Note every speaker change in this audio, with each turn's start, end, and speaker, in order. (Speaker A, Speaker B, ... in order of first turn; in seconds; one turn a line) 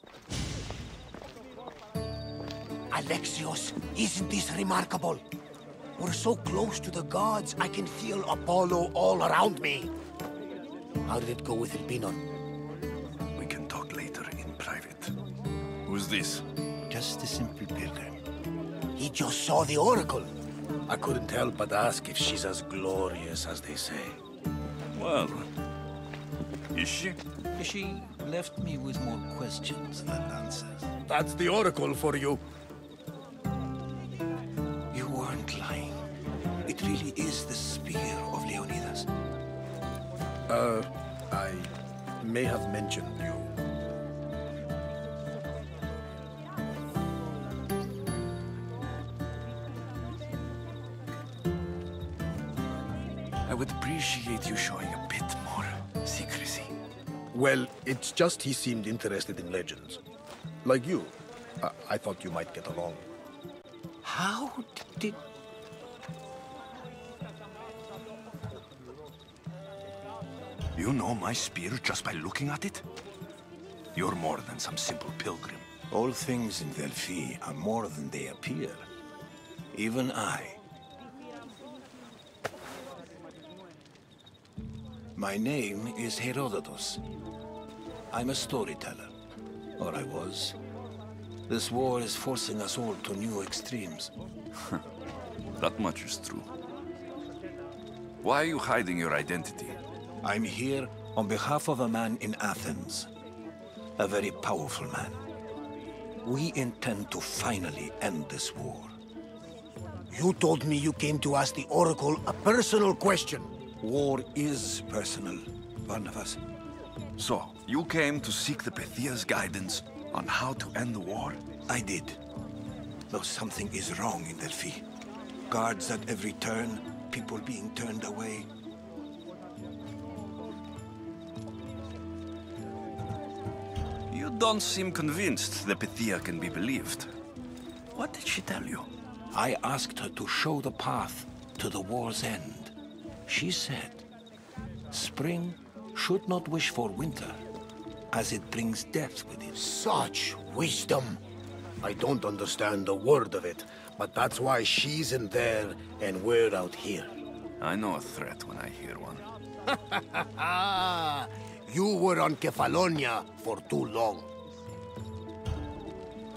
Speaker A: 2.9-5.2
Speaker A: 6.0-9.9
Speaker A: 11.0-12.2
Speaker B: 13.3-15.1
Speaker B: 15.8-16.4
Speaker C: 16.9-18.2
Speaker A: 18.9-20.3
Speaker A: 20.9-24.2
Speaker B: 24.9-25.5
Speaker B: 26.7-27.2
Speaker C: 27.5-30.9
Speaker A: 31.1-32.4
Speaker C: 34.9-36.0
Speaker C: 36.6-39.1
Speaker A: 40.5-43.5
Speaker B: 53.4-56.4
Speaker C: 56.1-56.4
Speaker A: 57.3-60.0
Speaker A: 60.6-63.0
Speaker C: 64.0-65.2
Speaker B: 70.7-72.8
Speaker B: 73.9-75.7
Speaker C: 75.9-78.9
Speaker C: 79.7-80.6
Speaker C: 85.1-87.0
Speaker C: 88.1-89.1
Speaker C: 89.8-90.6
Speaker C: 91.5-94.1
Speaker B: 95.6-96.5
Speaker B: 98.2-99.8
Speaker C: 100.2-103.1
Speaker C: 104.0-105.2
Speaker C: 106.2-108.9
Speaker A: 110.1-113.5
Speaker C: 113.8-116.4
Speaker B: 117.2-121.4
Speaker C: 121.7-122.2
Speaker C: 123.1-124.8
Speaker C: 125.5-128.5
Speaker B: 134.1-137.1
Speaker B: 137.9-138.9
Speaker C: 139.3-142.7
Speaker C: 143.3-144.0
Speaker C: 144.9-147.4
Speaker C: 148.1-149.6
Speaker A: 149.5-151.2
Speaker A: 151.8-157.1
Speaker B: 157.6-159.2
Speaker A: 159.9-164.3